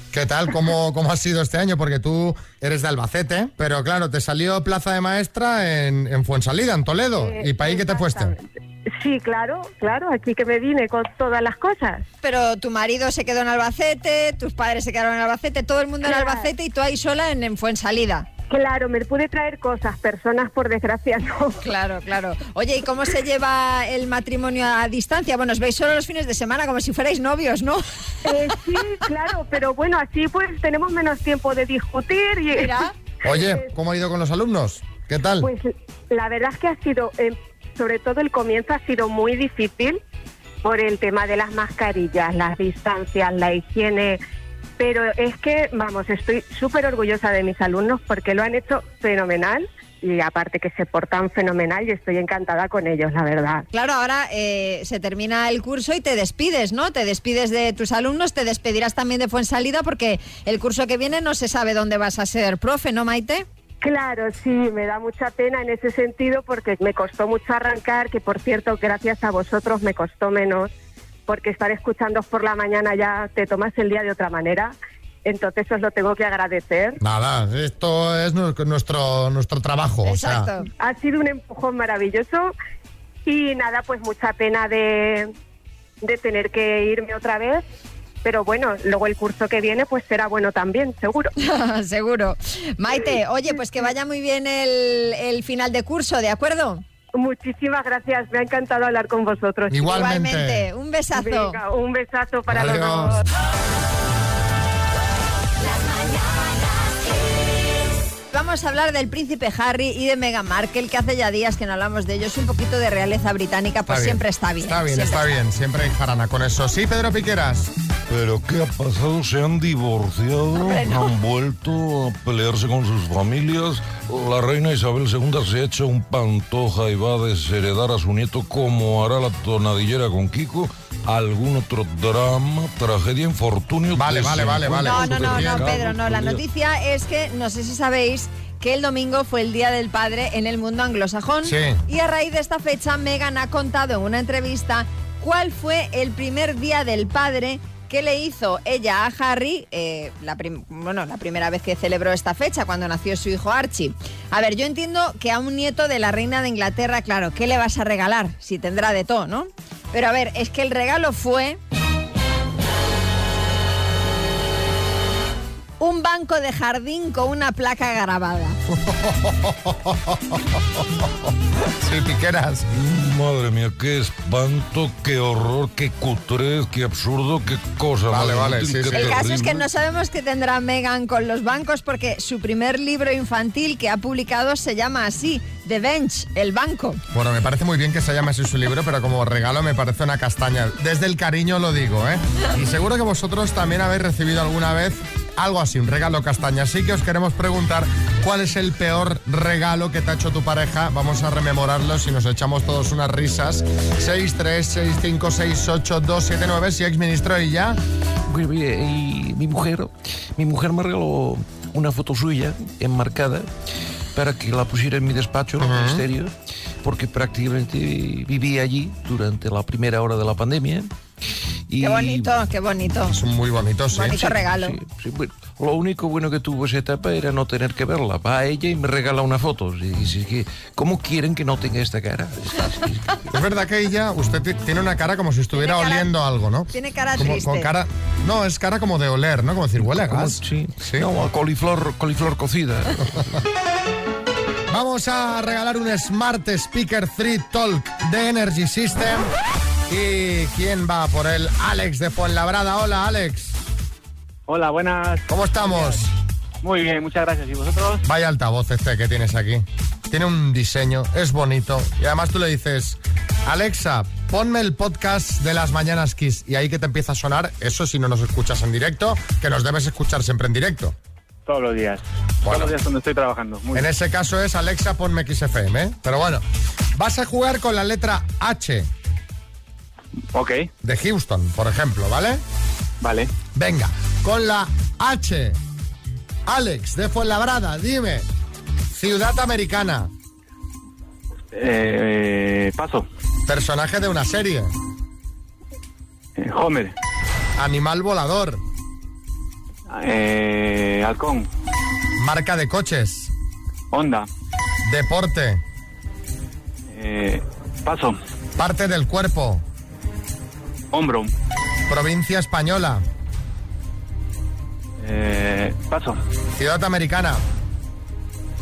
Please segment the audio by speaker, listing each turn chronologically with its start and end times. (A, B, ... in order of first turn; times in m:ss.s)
0:00.1-0:08.3 A
0:07.2-0:08.4 B
0:09.0-0:12.0 B
0:12.2-0:18.3 C
0:16.0-0:16.5 B
0:18.5-0:21.6 B
0:21.6-0:27.8 C
0:28.2-0:33.7 B
0:32.6-0:32.9 C
0:33.2-0:35.5 A
0:35.4-0:40.0 B
0:40.6-0:44.2 B
0:44.8-0:53.6 B
0:53.7-1:03.4 C
1:03.8-1:10.7 B
1:11.3-1:14.7 B
1:15.2-1:17.0 B
1:17.0-1:20.5 A
1:20.0-1:20.7 C
1:20.8-1:22.5 B
1:23.2-1:25.3 B
1:26.0-1:27.6 B
1:28.2-1:31.3 B
1:31.4-1:36.8 C
1:37.2-1:40.1 B
1:39.7-1:40.7 A
1:39.8-1:41.6 C
1:41.1-1:43.2 B
1:42.5-1:43.2 A
1:48.3-1:55.4 C
1:53.9-1:57.7 A
1:58.1-2:16.4 D
2:00.6-2:01.1 C
2:13.9-2:15.7 A
2:14.8-2:41.6 C
2:21.4-2:21.8 A
2:45.8-2:48.6 C
2:48.7-2:50.8 A
2:51.8-2:52.7 A
2:52.7-2:59.7 D
2:58.1-2:59.2 A
2:58.9-3:07.0 C
3:07.1-3:27.8 A
3:28.3-3:33.5 E
3:34.1-3:40.9 E
3:35.6-3:36.0 A
3:41.7-3:42.3 E
3:41.8-3:43.2 C
3:43.1-3:44.2 A
3:43.9-3:44.8 C
3:44.1-3:53.2 E
3:53.3-4:01.1 A
3:55.5-3:56.1 C
3:56.7-3:57.7 C
3:59.8-4:03.2 E
4:04.7-4:09.3 A
4:09.9-4:13.6 A
4:14.5-4:15.9 F
4:15.3-4:16.1 A
4:16.6-4:18.0 F
4:18.0-4:31.0 A
4:31.5-4:32.0 F
4:32.4-4:32.8 A
4:32.5-4:33.9 F
4:33.7-4:36.4 A
4:36.9-4:38.9 A
4:40.3-4:40.7 F
4:40.8-4:42.4 A
4:43.0-4:43.3 F
4:43.5-4:45.6 A
4:46.4-4:48.3 A
4:48.9-4:50.1 A
4:51.5-4:53.0 F
4:53.5-4:54.7 A
4:56.4-4:56.9 F
4:57.6-4:58.6 A
4:59.9-5:01.5 F
5:02.2-5:03.3 A
5:03.9-5:04.3 F
5:04.8-5:05.6 A
5:06.9-5:08.2 F
5:08.6-5:09.6 A
5:10.9-5:11.3 F
5:11.9-5:13.0 A
5:15.0-5:16.2 F
5:16.5-5:17.4 A